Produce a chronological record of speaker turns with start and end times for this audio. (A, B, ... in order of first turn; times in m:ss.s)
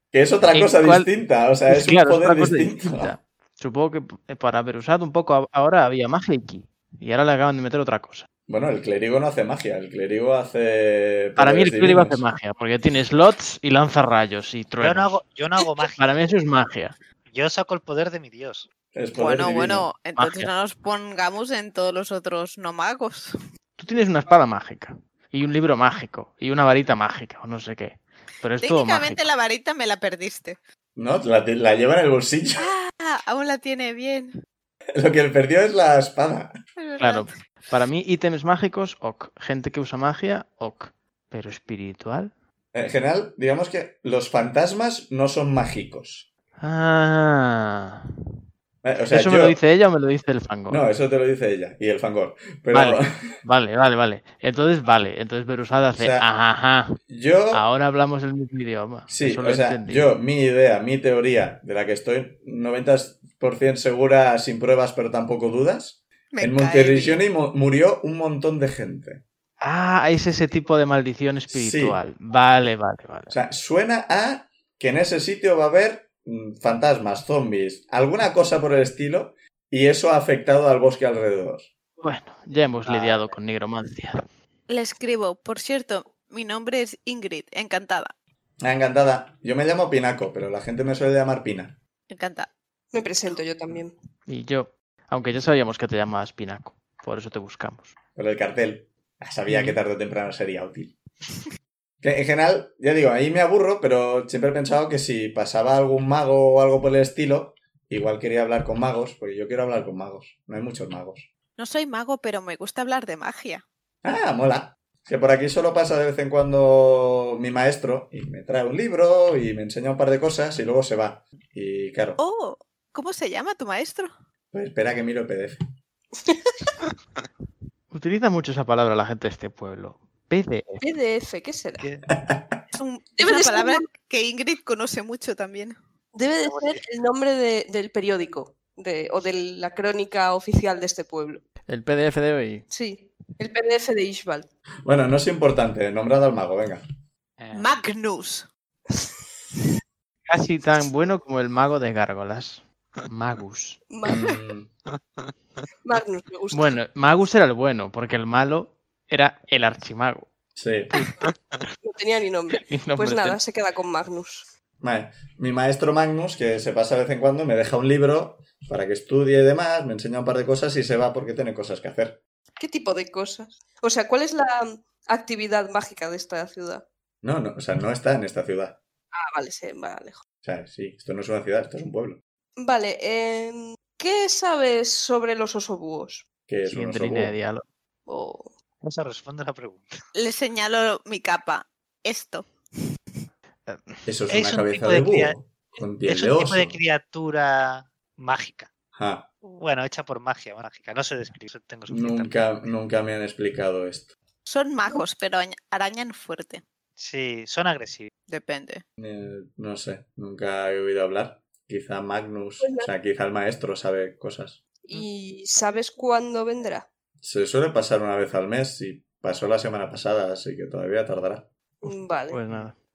0:00.1-0:03.1 A
0:00.4-0:01.1 B
0:01.7-0:08.3 B
0:08.5-0:12.2 A
0:11.4-0:15.2 B
0:14.8-0:16.0 C
0:16.0-0:17.0 B
0:17.3-0:18.7 C
0:18.9-0:19.9 A
0:19.1-0:23.3 D
0:20.2-0:20.5 B
0:23.8-0:29.2 B
0:28.6-0:30.6 D
0:31.0-0:32.7 A
0:32.6-0:34.3 D
0:35.0-0:36.5 A
0:36.8-0:37.3 D
0:37.0-0:42.3 B
0:42.7-0:46.3 A
0:46.6-0:48.1 B
0:48.8-0:49.6 A
0:49.1-0:50.8 B
0:50.7-0:53.1 A
0:52.7-0:57.0 B
0:55.9-0:56.2 A
0:57.1-0:57.6 A
0:57.5-1:00.1 B
0:59.1-1:09.2 A
1:06.3-1:07.2 D
1:09.6-1:13.4 B
1:11.5-1:12.0 A
1:13.3-1:21.7 A
1:22.0-1:24.2 B
1:22.8-1:23.4 C
1:24.7-1:28.1 D
1:28.6-1:31.8 A
1:32.1-1:32.5 D
1:32.9-1:33.9 E
1:34.3-1:37.9 B
1:38.2-1:40.9 A
1:39.5-1:39.8 B
1:42.0-1:51.3 A
1:51.6-1:53.6 D
1:54.0-2:02.2 A
2:02.2-2:04.1 D
2:04.5-2:05.6 A
2:07.9-2:10.8 B
2:10.8-2:11.8 E
2:11.8-2:12.0 C
2:12.2-2:12.6 A
2:12.7-2:15.8 D
2:13.2-2:13.8 E
2:16.1-2:21.4 E
2:16.4-2:16.8 C
2:21.7-2:22.6 B
2:22.7-2:24.5 E
2:24.8-2:26.8 A
2:27.4-2:27.9 C
2:27.5-2:28.5 D
2:30.3-2:33.8 B
2:33.9-2:34.3 E
2:34.0-2:34.7 A
2:35.8-2:36.8 E
2:36.5-2:40.3 B
2:40.6-2:41.0 A
2:41.8-2:44.5 E
2:42.6-2:43.4 B
2:44.8-2:52.2 A
2:52.6-2:56.8 E
2:57.2-2:58.8 A
2:59.1-3:00.2 E
3:00.4-3:02.2 A
3:02.6-3:06.2 E
3:06.5-3:07.4 A
3:06.6-3:07.6 B
3:08.1-3:08.5 E
3:08.8-3:10.0 C
3:10.1-3:12.5 D
3:13.6-3:14.0 B
3:14.0-3:16.8 A
3:14.3-3:15.3 C
3:16.0-3:18.7 C
3:18.9-3:19.3 A
3:19.4-3:22.4 C
3:21.9-3:24.1 A
3:24.4-3:26.6 D
3:27.0-3:28.1 C
3:28.3-3:28.8 D
3:29.0-3:34.6 A
3:32.6-3:32.9 E
3:34.9-3:36.8 E
3:37.2-3:41.5 A
3:41.8-3:42.4 E
3:42.3-3:42.8 B